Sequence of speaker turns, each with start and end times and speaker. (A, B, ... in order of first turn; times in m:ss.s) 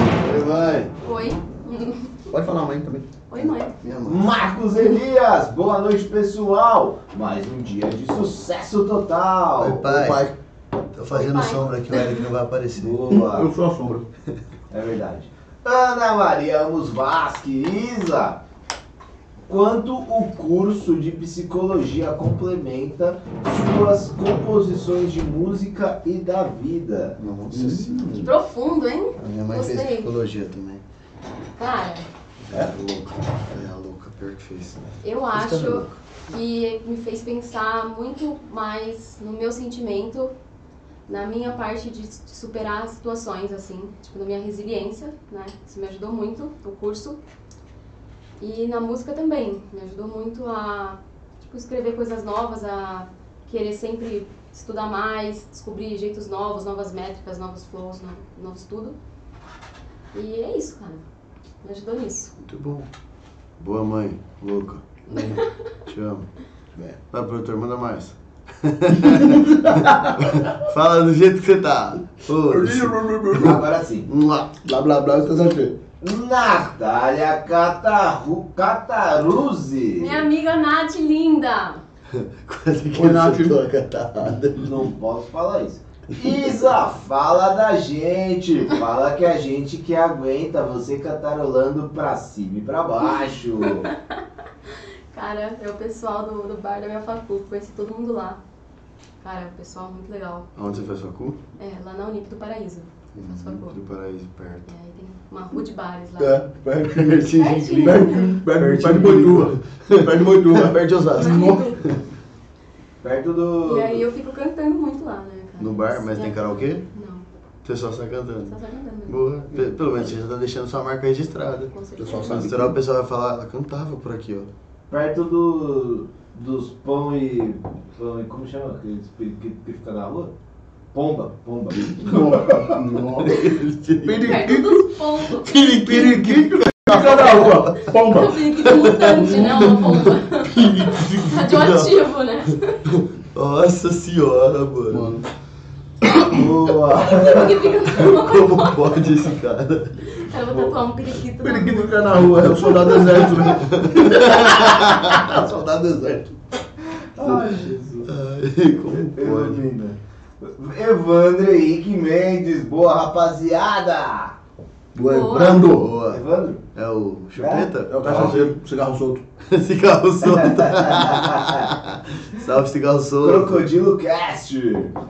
0:00.2-0:00.9 A
0:01.0-0:02.3 B
0:02.3-0:03.1 C
0:03.3-0:03.8 B
0:03.8-0:04.2 A
0:04.0-0:09.9 D
0:09.6-0:10.3 A
0:09.8-0:10.4 C
0:10.9-0:13.0 A
0:11.1-0:12.2 B
0:12.8-0:13.5 D
0:13.1-0:14.0 C
0:14.7-0:18.4 D
0:19.5-0:27.2 D
0:27.2-0:28.3 A
0:27.5-0:28.3 C
0:28.2-0:30.1 B
0:29.2-0:30.8 A
0:31.6-0:32.1 B
0:32.5-0:36.0 A
0:35.0-0:40.3 B
0:41.1-0:47.2 B
0:48.4-0:59.0 B
1:00.1-1:01.0 B
1:01.6-1:02.3 B
1:02.4-1:02.9 A
1:03.6-1:06.3 A
1:05.1-1:05.6 B
1:07.1-1:14.5 A
1:09.1-1:10.5 C
1:12.5-1:13.7 C
1:13.4-1:14.1 D
1:14.6-1:15.8 C
1:16.0-1:20.3 D
1:20.0-1:21.8 B
1:22.1-1:24.9 A
1:22.9-1:23.6 C
1:24.6-1:33.9 D
1:33.7-1:38.4 B
1:39.2-1:40.5 B
1:40.6-1:41.4 A
1:41.6-1:43.8 B
1:43.2-1:44.7 A
1:44.7-1:46.4 B
1:46.2-1:51.8 C
1:46.9-1:52.0 A
1:47.3-1:48.4 B
1:51.1-1:52.0 B
1:53.0-1:54.0 D
1:53.6-1:57.3 B
1:55.6-1:56.8 A
1:57.6-1:58.6 A
1:58.4-1:59.2 B
1:59.1-2:04.5 A
2:01.7-2:02.5 B
2:02.0-2:02.8 C
2:04.9-2:10.3 D
2:10.9-2:12.8 D
2:11.8-2:13.4 C
2:13.2-2:14.6 A
2:14.0-2:14.8 C
2:14.0-2:16.1 B
2:15.4-2:17.6 A
2:15.8-2:18.5 C
2:16.9-2:22.8 B
2:18.6-2:22.1 A
2:22.8-2:25.1 A
2:24.9-2:25.3 C
2:26.3-2:27.8 D
2:27.0-2:29.3 B
2:27.9-2:30.2 A
2:30.0-2:32.9 B
2:31.4-2:36.3 C
2:32.6-2:35.4 A
2:36.8-2:38.1 D
2:38.0-2:39.6 A
2:38.8-2:44.4 D
2:44.9-2:45.9 C
2:45.0-2:45.7 B
2:45.6-2:46.2 A
2:46.1-2:46.6 D
2:46.7-2:48.6 A
2:47.4-2:48.3 D
2:47.9-2:49.2 C
2:49.4-2:53.7 A
2:50.2-2:51.7 D
2:53.2-2:55.0 D